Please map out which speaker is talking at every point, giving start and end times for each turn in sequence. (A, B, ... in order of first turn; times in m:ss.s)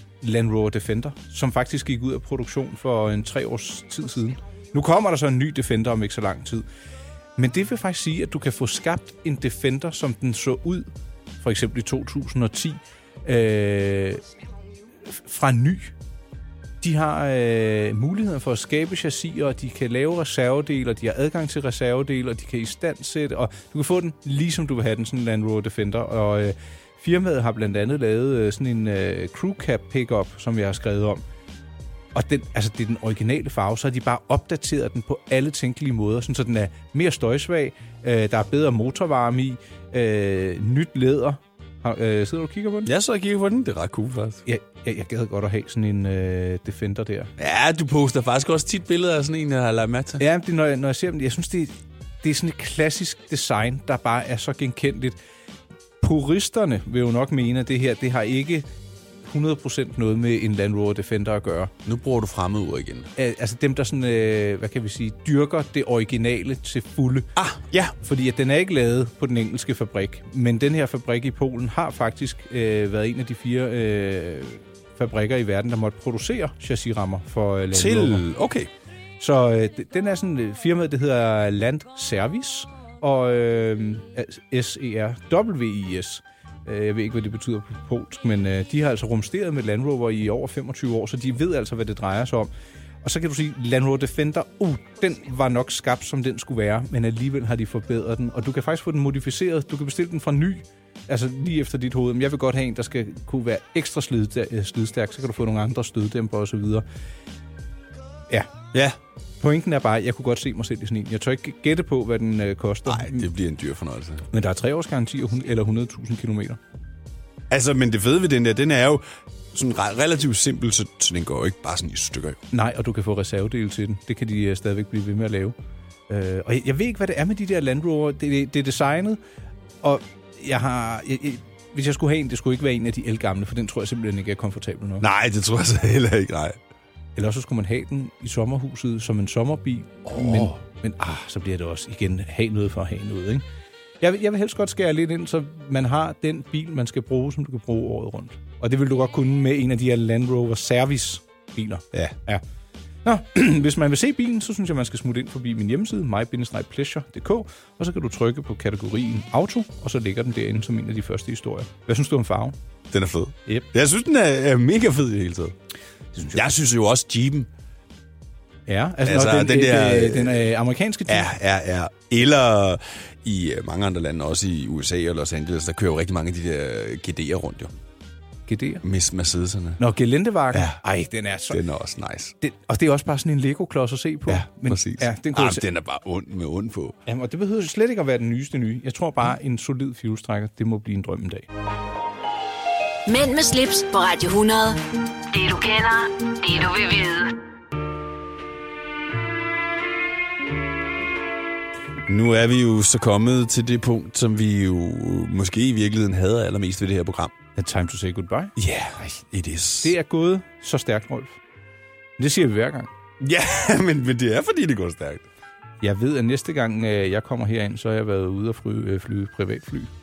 0:00.2-0:06.6 A
0:07.4-0:10.9 A
0:11.4-0:14.2 A
0:15.1-0:16.0 A
0:16.8-0:31.2 A
0:32.1-0:42.9 A
0:42.9-0:44.4 B
0:44.5-0:47.3 A
0:47.4-0:50.2 B
0:50.2-0:55.2 A
0:56.0-0:58.7 A
0:59.2-1:01.7 A
1:01.8-1:03.1 B
1:03.2-1:07.3 A
1:07.4-1:08.0 B
1:08.0-1:18.2 A
1:17.7-1:18.7 B
1:19.2-1:32.5 A
1:33.0-1:46.8 A
1:48.7-1:49.0 B
1:49.4-1:53.3 A
1:52.9-1:54.3 B
1:54.3-1:56.6 A
1:57.5-2:02.4 B
2:02.5-2:05.6 A
2:06.1-2:09.2 A
2:09.8-2:15.1 A
2:15.0-2:16.6 B
2:17.2-2:23.4 A
2:20.1-2:20.6 B
2:24.0-2:32.4 A
2:33.0-2:42.6 A
2:42.9-2:45.6 B
2:46.2-2:46.5 A
2:46.3-2:47.5 B
2:48.7-2:51.3 A
2:49.0-2:50.5 B
2:51.1-2:57.7 B
2:58.5-2:58.8 A
2:58.8-2:59.8 B
2:59.8-3:01.6 A
3:00.5-3:00.8 B
3:01.5-3:02.4 B
3:02.4-3:05.6 A
3:04.3-3:07.0 B
3:07.1-3:11.5 A
3:13.1-3:17.4 C
3:22.1-3:27.3 B
3:27.6-3:28.5 A
3:28.6-3:29.9 B
3:29.8-3:31.4 A
3:32.2-3:32.9 A
3:33.2-3:35.3 B
3:35.8-3:39.9 A